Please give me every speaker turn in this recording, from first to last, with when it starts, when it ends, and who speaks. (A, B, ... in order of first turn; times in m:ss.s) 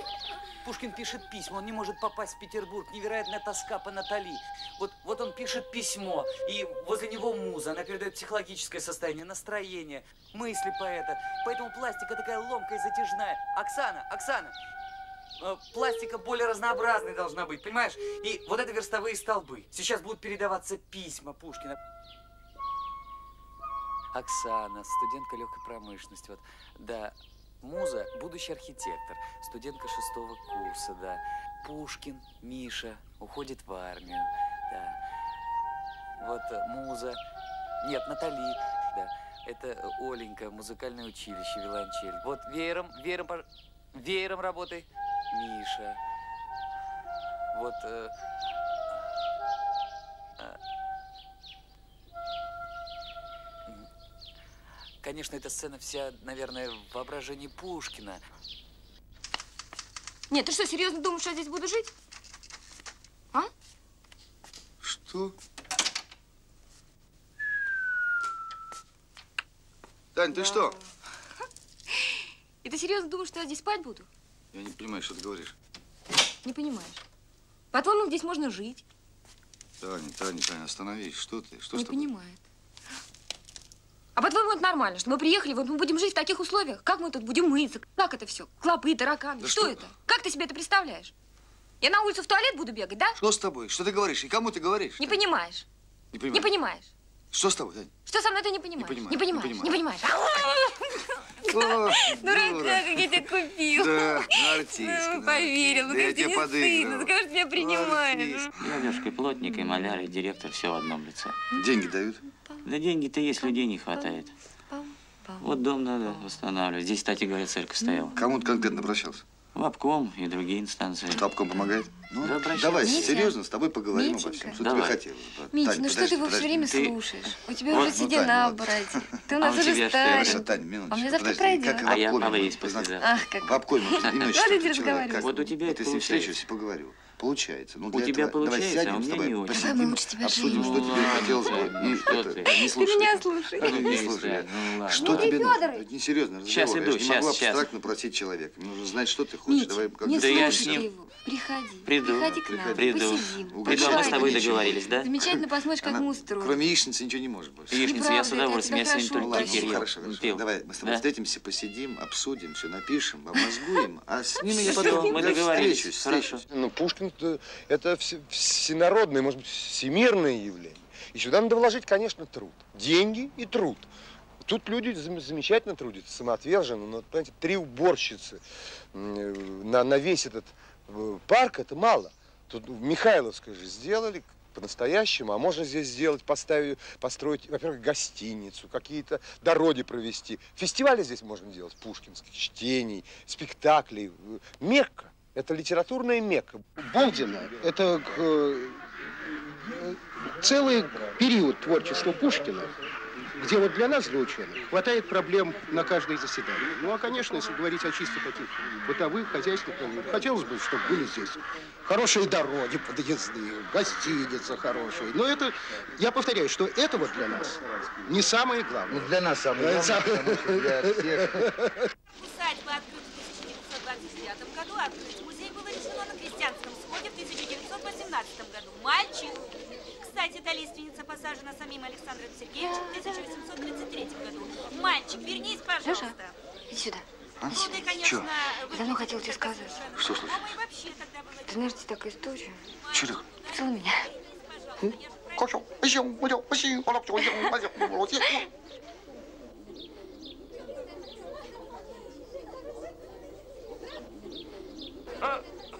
0:00.6-0:14.5 A
0:15.4-0:21.8 A
0:24.1-0:35.0 A
0:36.2-0:37.2 A
0:37.8-0:46.0 A
0:47.5-0:48.1 A
0:55.0-0:58.2 A
1:00.3-1:01.9 B
1:04.8-1:05.4 C
1:10.1-1:10.8 C
1:10.3-1:10.8 B
1:11.9-1:14.1 B
1:14.5-1:15.6 C
1:16.4-1:17.0 B
1:17.7-1:18.8 B
1:19.8-1:22.1 C
1:21.7-1:22.4 B
1:24.2-1:31.1 B
1:29.4-1:29.9 C
1:31.8-1:33.2 B
1:33.2-1:35.2 C
1:35.0-1:35.7 B
1:36.1-1:36.5 C
1:36.3-1:36.9 B
1:37.3-1:37.9 C
1:38.1-1:48.5 B
1:38.8-1:39.8 C
1:41.4-1:48.9 C
1:48.6-1:51.4 D
1:51.5-1:52.2 C
1:52.3-1:52.7 B
1:52.6-1:54.3 D
1:53.4-1:55.5 B
1:55.4-1:58.2 D
1:57.8-1:58.7 B
1:58.1-1:59.2 C
1:59.5-2:01.3 D
2:01.1-2:06.8 C
2:02.2-2:03.2 D
2:02.8-2:03.4 B
2:03.9-2:04.7 B
2:04.6-2:05.0 D
2:05.5-2:12.1 B
2:06.6-2:06.9 D
2:07.7-2:09.0 C
2:07.7-2:08.0 D
2:09.4-2:10.4 D
2:09.9-2:30.8 C
2:11.8-2:13.1 D
2:13.0-2:15.4 B
2:14.0-2:14.5 D
2:15.1-2:16.4 D
2:17.9-2:22.5 D
2:19.5-2:21.5 B
2:22.4-2:24.1 B
2:23.6-2:25.4 D
2:24.9-2:25.8 B
2:26.4-2:27.7 D
2:29.5-2:36.6 B
2:30.1-2:30.9 D
2:31.8-2:35.1 D
2:32.1-2:38.1 C
2:37.7-2:41.0 D
2:37.7-2:39.8 B
2:39.2-2:46.4 C
2:44.4-2:46.4 D
2:44.4-2:45.0 B
2:44.6-2:53.9 E
2:54.4-2:58.4 E
2:58.9-3:17.7 E
3:16.9-3:18.8 F
3:20.4-3:22.8 F
3:23.4-3:41.5 F
3:37.3-3:38.1 C
3:38.9-3:41.5 C
3:42.1-3:56.4 G
3:52.6-3:53.3 B
3:55.8-3:56.1 B
3:56.7-3:57.8 B
3:57.4-3:58.3 C
3:57.5-4:01.9 G
3:58.7-3:59.8 B
4:00.0-4:00.6 C
4:01.5-4:02.6 B
4:02.8-4:03.7 G
4:02.9-4:03.2 C
4:03.5-4:04.1 B
4:04.2-4:05.4 G
4:04.8-4:08.2 F
4:07.2-4:07.5 B
4:07.4-4:08.0 C